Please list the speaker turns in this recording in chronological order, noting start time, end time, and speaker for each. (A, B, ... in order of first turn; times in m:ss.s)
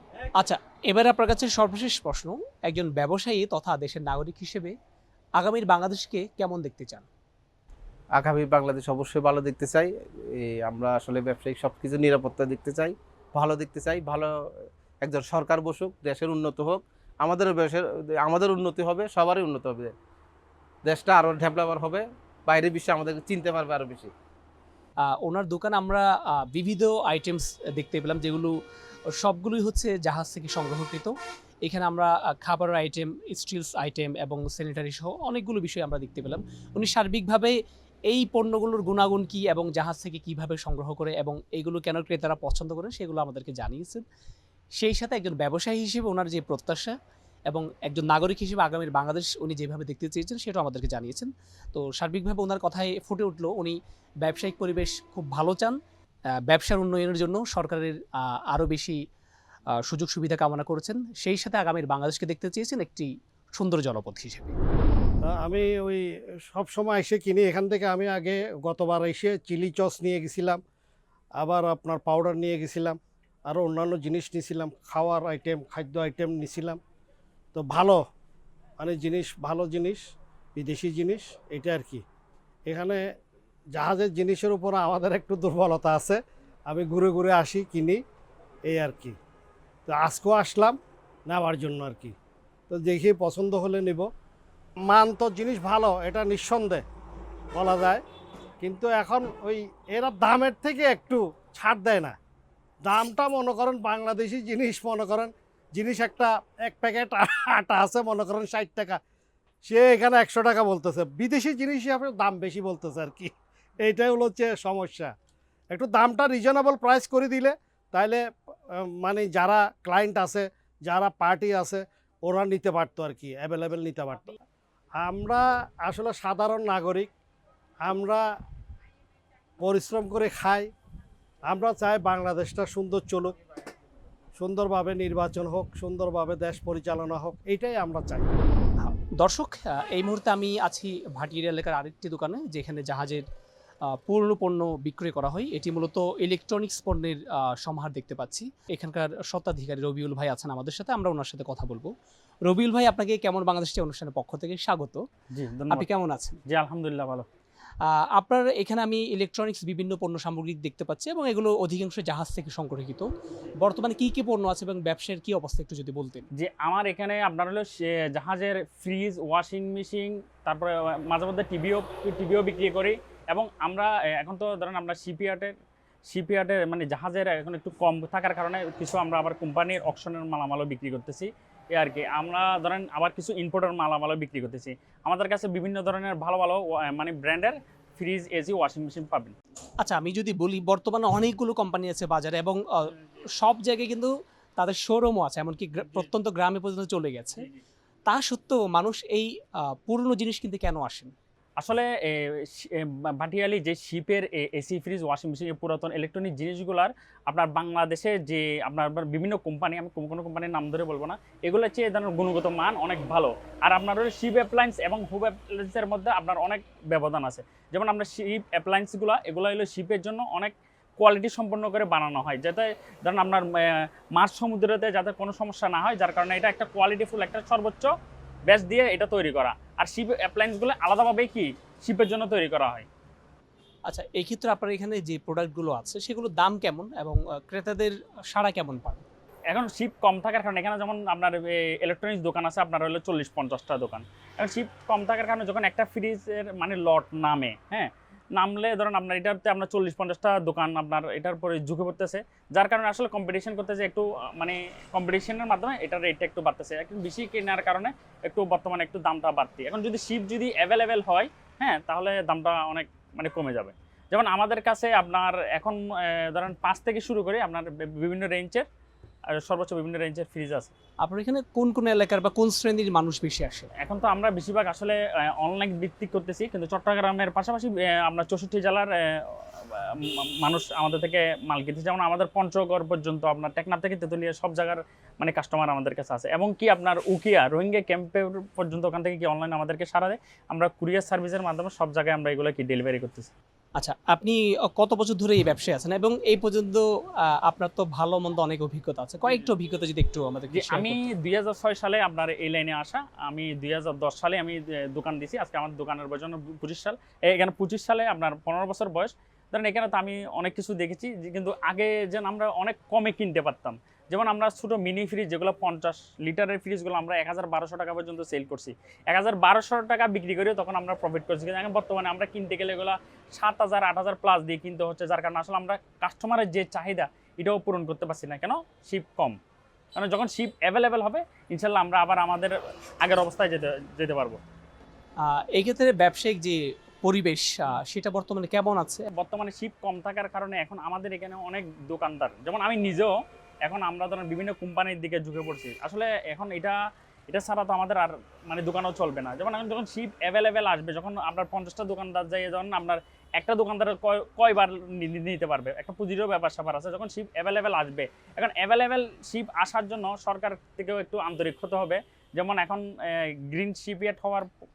0:00.4-0:04.7 A
0:05.4-0:07.0 A
0:08.2-0:14.3 B
0:15.0-0:19.9 B
0:20.8-0:24.1 B
0:25.0-0:28.5 A
0:29.1-0:37.6 A
0:38.1-0:44.0 A
0:44.8-0:46.9 A
0:47.5-0:55.8 A
0:56.5-0:59.0 A
0:59.8-1:04.6 A
1:05.2-1:10.6 C
1:11.4-1:16.8 C
1:17.5-1:18.0 C
1:18.8-1:20.0 C
1:20.6-1:22.0 C
1:22.7-1:23.0 C
1:23.7-1:28.0 C
1:28.7-1:29.2 C
1:29.8-1:30.8 C
1:31.3-1:32.1 C
1:32.7-1:34.1 C
1:34.8-1:36.8 C
1:37.5-1:38.0 C
1:38.6-1:42.2 C
1:42.8-1:49.0 C
1:49.6-1:55.1 C
1:55.7-2:04.4 C
2:05.0-2:07.1 C
2:07.8-2:08.2 C
2:09.6-2:10.7 C
2:11.5-2:13.3 C
2:14.4-2:18.3 C
2:18.8-2:23.2 A
2:23.9-2:31.9 A
2:32.4-2:35.0 A
2:35.3-2:35.9 D
2:35.7-2:36.4 A
2:36.4-2:37.2 D
2:37.8-2:43.1 A
2:43.6-2:46.3 A
2:46.3-2:55.5 D
2:56.1-3:09.3 D
3:09.8-3:17.4 A
3:18.1-3:21.1 A
3:21.6-3:47.9 D
3:48.5-3:52.8 D
3:53.9-3:59.0 A
3:59.5-4:28.6 D
4:29.3-4:30.7 D
4:31.0-4:33.7 A
4:33.8-4:53.3 D
4:53.8-4:56.8 A
4:57.4-5:01.0 A
5:00.5-5:29.4 D
5:30.0-5:34.4 D
5:35.2-5:39.1 A
5:39.1-5:46.8 D
5:47.3-6:04.5 D